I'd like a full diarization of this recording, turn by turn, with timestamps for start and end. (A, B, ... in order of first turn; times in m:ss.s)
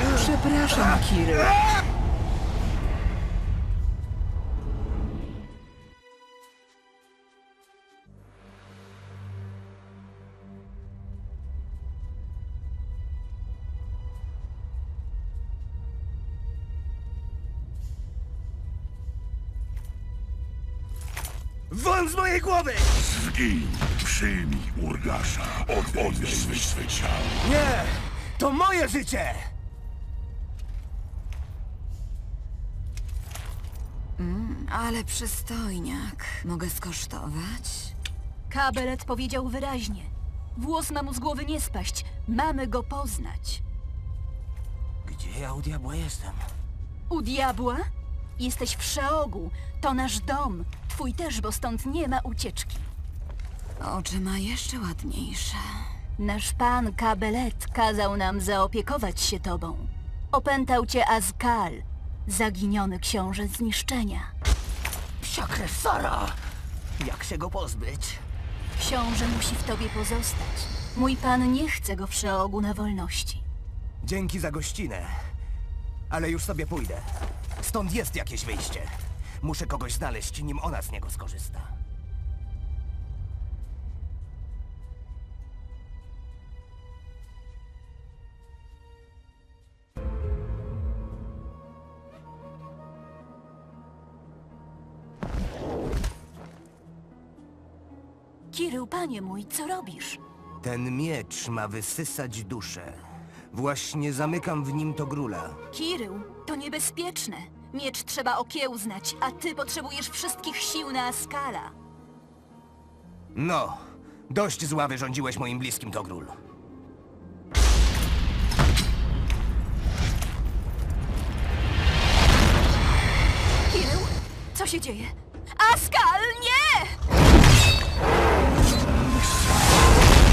0:00.1-0:01.5 A
0:21.7-0:22.9 B
0:23.0-0:27.4 C
0:27.4-0:29.5 B
0:34.2-0:38.0 D
0:38.5-0:43.6 A
0:45.0-0:46.5 B
0:47.1-0:47.9 A
0:48.4-0:52.9 A
0:53.8-0:55.9 D
0:56.2-1:04.3 A
1:05.2-1:06.4 B
1:07.0-1:08.2 B
1:08.8-1:13.4 A
1:14.0-1:15.2 B
1:16.1-1:21.8 B
1:38.5-1:40.2 A
1:40.6-1:45.6 B
1:45.7-1:51.8 A
1:53.4-1:56.4 B
2:03.7-2:07.0 A
2:09.2-2:09.9 C